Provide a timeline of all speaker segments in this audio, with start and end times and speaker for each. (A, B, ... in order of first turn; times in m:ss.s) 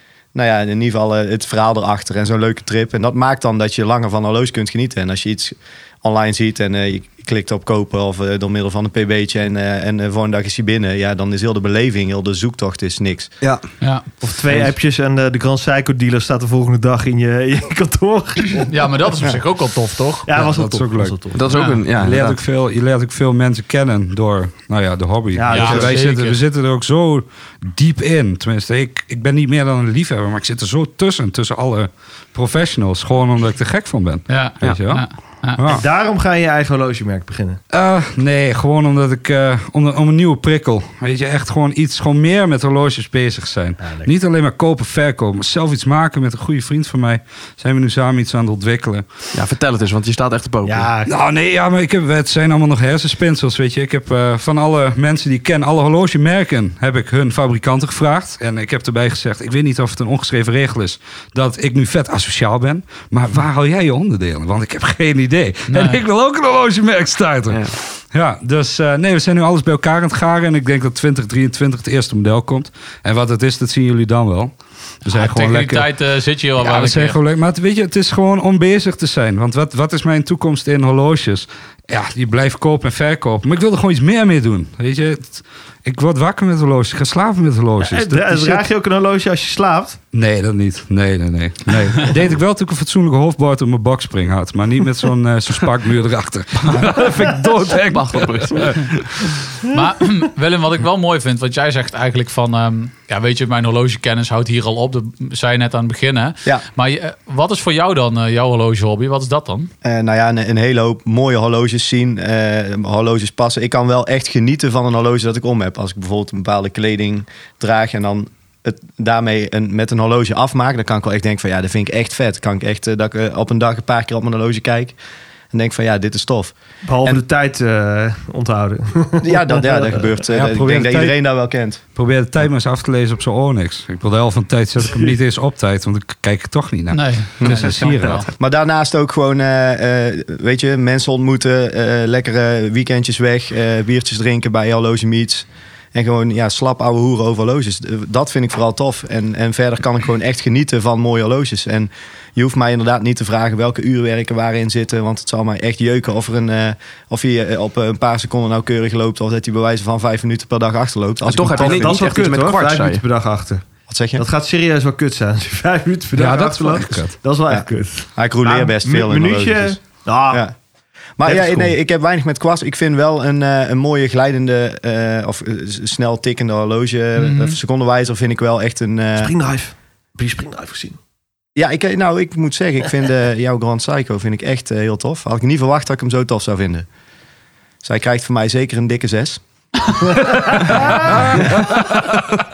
0:00.3-0:13.3 A
0:13.4-0:13.6 B
0:13.8-0:14.1 C
0:14.2-0:18.7 D
0:14.5-0:14.7 B
0:18.7-0:20.3 C
0:20.2-0:21.5 D
0:20.4-0:21.3 E
0:21.3-0:22.4 B
0:21.5-0:21.8 C
0:21.9-0:35.8 E
0:25.3-0:26.0 D
0:25.5-0:26.4 C
0:34.3-0:35.6 C
0:35.7-0:37.6 D
0:37.7-0:49.0 E
0:43.8-0:44.1 D
0:49.3-0:50.9 B
0:50.6-0:51.1 D
0:51.0-1:15.9 E
1:05.7-1:06.0 C
1:15.1-1:17.2 C
1:16.6-1:28.6 E
1:27.8-1:30.0 D
1:30.1-1:38.9 E
1:37.6-1:39.0 B
1:39.7-1:49.7 C
1:49.8-2:05.0 A
2:05.5-2:07.2 A
2:06.8-2:10.2 D
2:09.2-2:11.8 A
2:10.3-2:11.2 E
2:11.8-2:18.2 E
2:16.9-2:18.3 C
2:17.4-2:42.1 A
2:41.2-2:43.0 B
2:41.5-2:50.4 D
2:43.9-2:44.2 A
2:46.1-2:47.2 E
2:47.5-2:50.5 A
2:51.2-2:59.3 A
2:51.2-2:51.7 D
2:57.2-2:57.6 C
2:59.2-3:01.0 D
3:01.6-3:06.9 A
3:07.8-3:09.4 A
3:10.0-3:11.6 D
3:11.1-3:12.2 E